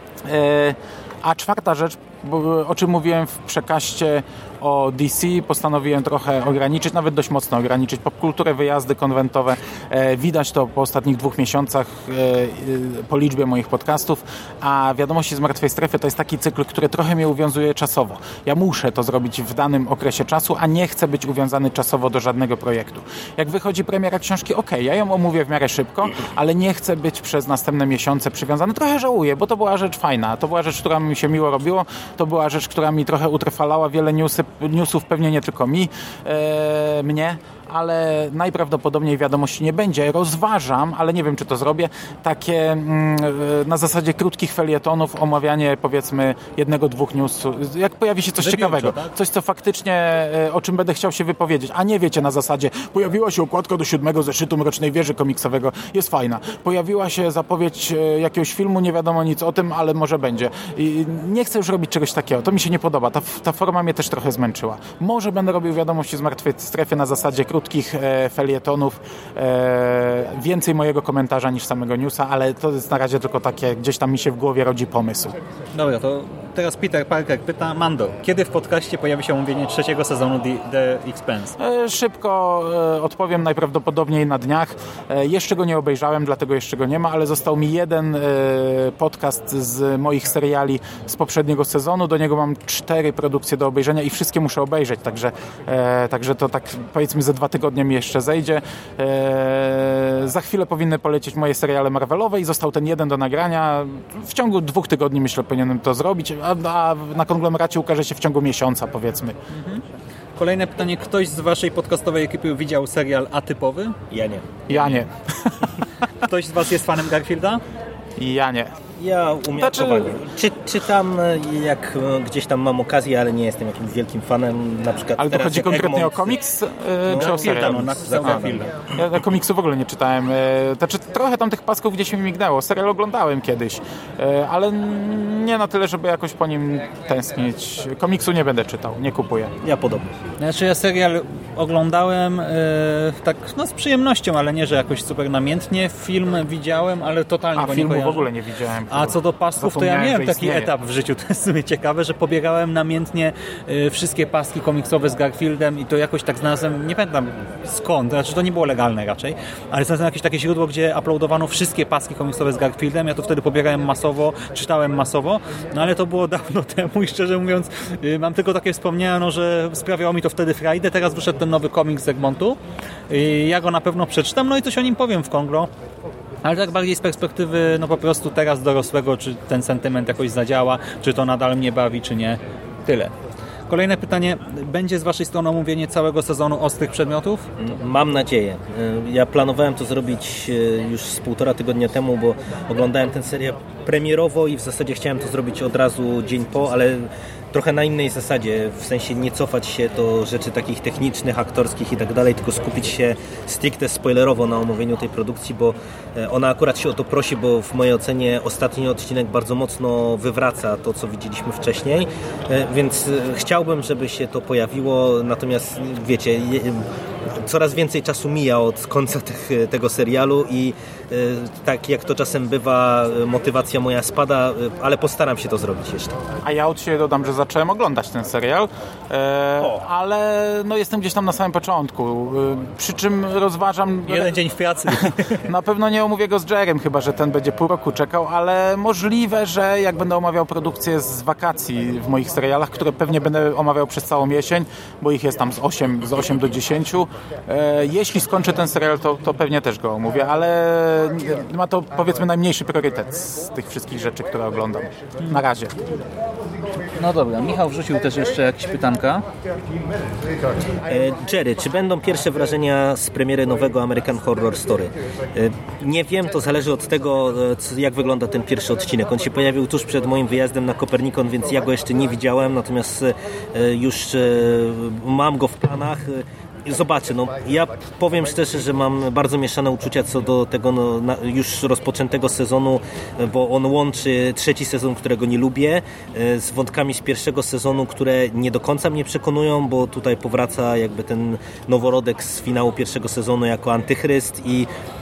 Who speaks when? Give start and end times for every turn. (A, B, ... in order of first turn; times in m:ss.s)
0:00.2-1:15.4 A
0:48.4-0:49.1 B
1:15.8-1:21.6 B
1:21.6-1:49.4 A
1:49.5-1:49.8 B
1:50.4-1:54.0 B
1:54.1-1:54.5 C
1:54.7-1:55.0 B
1:54.7-1:55.7 A
1:56.2-1:57.6 B
1:58.2-1:58.8 A
1:59.0-2:06.4 C
1:59.6-2:00.2 A
2:05.2-2:07.8 A
2:07.1-2:08.7 B
2:07.1-2:08.7 C
2:08.9-2:19.5 A
2:19.6-2:20.3 C
2:20.4-2:28.3 B
2:27.6-2:30.7 A
2:28.9-2:55.7 B
2:56.4-3:03.1 B
3:03.7-3:07.6 B
3:07.6-3:46.2 C
3:46.4-4:15.8 A
3:49.6-3:49.8 C
3:54.1-3:55.4 B
4:16.9-4:19.2 B
4:20.9-4:54.7 C